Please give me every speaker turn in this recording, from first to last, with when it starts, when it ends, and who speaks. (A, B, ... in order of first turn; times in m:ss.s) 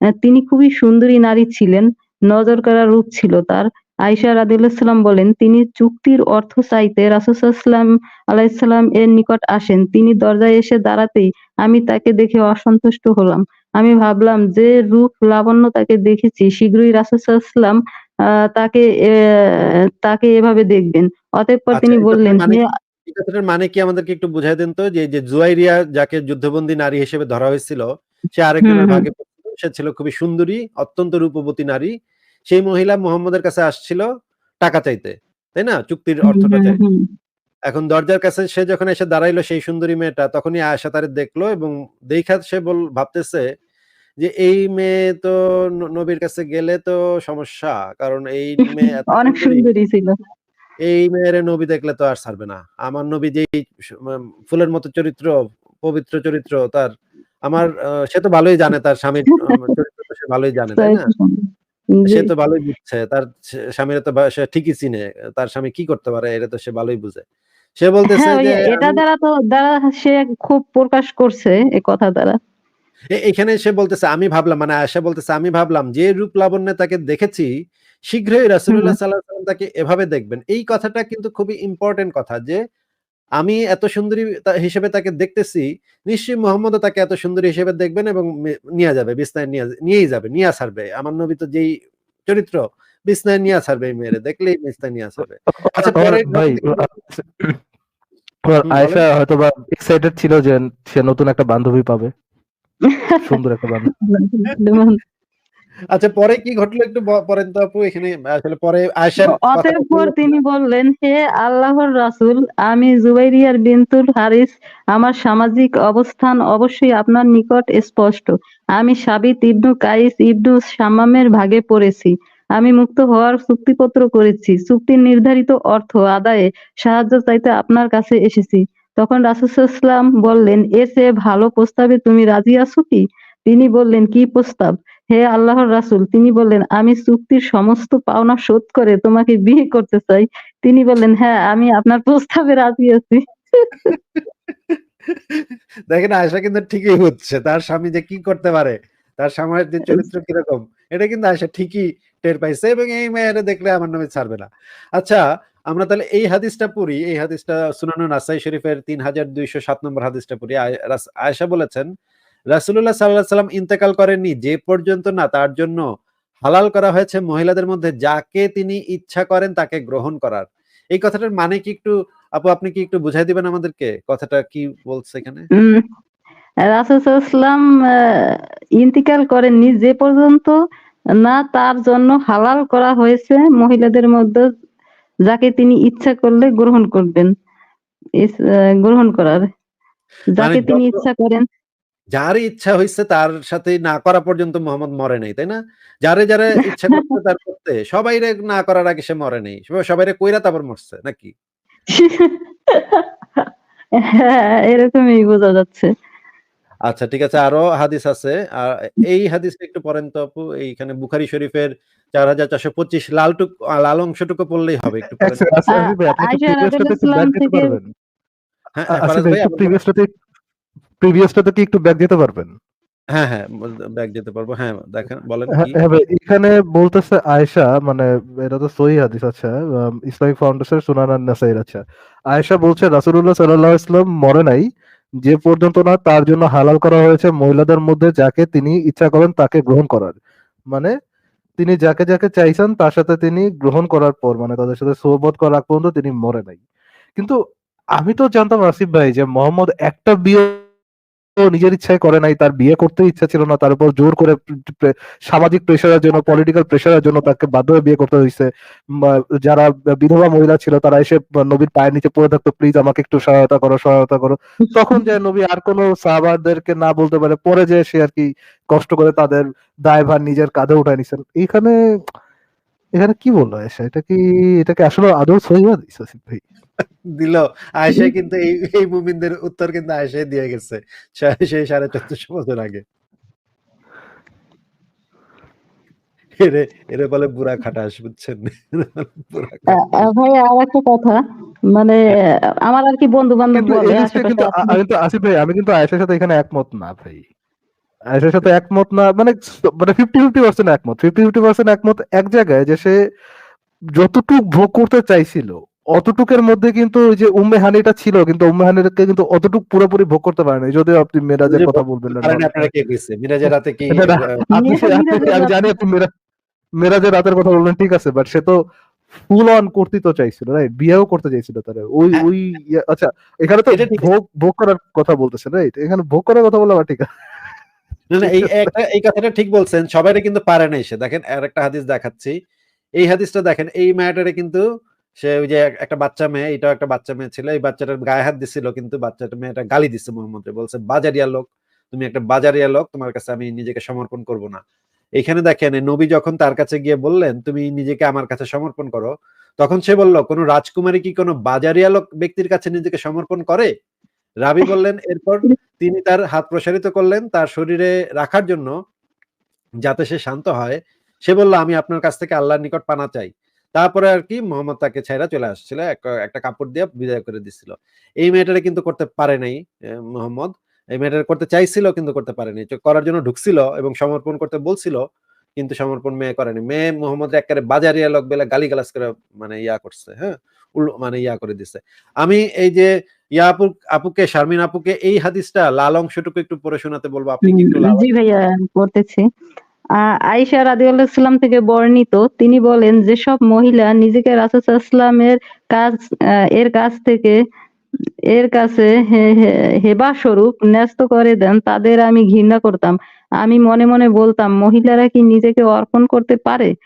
0:00.2-0:17.8 A
0:18.6-0:22.6 A
0:21.7-0:27.9 B
0:28.4-0:31.9 B
0:28.6-0:29.0 A
0:32.5-0:34.1 B
0:34.6-0:36.8 B
0:36.3-0:37.0 A
0:37.7-0:43.4 B
0:44.2-0:45.4 B
0:45.9-0:49.7 B
0:49.1-0:50.2 A
0:50.9-0:55.3 B
0:55.8-0:56.9 B
0:57.4-1:01.0 B
1:00.8-1:01.4 A
1:02.1-1:03.2 B
1:03.8-1:07.2 B
1:07.8-1:09.0 B
1:08.2-1:12.4 A
1:13.2-1:17.5 B
1:18.1-1:22.6 B
1:23.4-1:31.7 B
1:32.3-1:36.9 B
1:35.5-1:37.6 C
1:38.5-1:42.1 C
1:38.7-1:39.0 B
1:43.2-1:43.9 C
1:44.0-1:45.0 A
1:45.9-1:50.3 B
1:49.2-2:24.0 A
2:25.9-2:34.5 B
2:35.0-2:41.9 B
2:42.5-2:45.8 B
2:46.4-2:55.5 B
2:55.6-2:55.8 A
2:56.7-3:00.6 A
3:01.2-3:04.5 A
3:05.3-3:07.3 A
3:08.2-3:09.4 A
3:10.4-3:11.4 A
3:10.4-3:11.0 B
3:12.1-3:21.3 B
3:21.9-3:23.4 A
3:24.1-3:25.9 A
3:26.9-3:35.5 B
3:35.2-3:37.9 C
3:35.7-3:37.8 A
3:38.8-3:39.8 B
3:38.9-3:40.1 C
3:41.0-3:42.5 C
3:43.2-3:45.8 B
3:45.5-3:51.8 C
3:52.3-3:54.7 C
3:55.2-4:00.2 C
4:01.6-4:06.6 C
4:08.0-4:10.6 C
4:11.5-4:18.5 C
4:19.1-4:31.8 C
4:24.6-4:25.0 A
4:33.0-4:36.4 C
4:37.2-4:42.8 B
4:46.4-4:50.1 B
4:49.7-4:51.2 A
4:51.8-4:52.0 A
4:52.7-4:54.8 A
4:53.6-4:57.2 C
4:58.2-5:03.0 C
5:04.0-5:12.7 C
5:11.5-5:14.4 B
5:13.9-5:16.1 C
5:14.5-5:15.6 A
5:16.8-5:18.6 C
5:19.3-5:27.1 C
5:23.7-5:24.1 B
5:28.1-5:32.4 B
5:28.2-5:28.7 C
5:33.0-5:34.6 B
5:35.2-5:44.6 B
5:45.2-5:53.7 B
5:54.5-5:58.7 B
5:59.8-6:09.6 B
6:10.2-6:15.0 B
6:15.6-6:22.9 B
6:23.4-6:28.1 B
6:27.4-6:29.2 A
6:30.3-6:35.9 A
6:36.6-6:37.4 A
6:38.3-6:46.7 A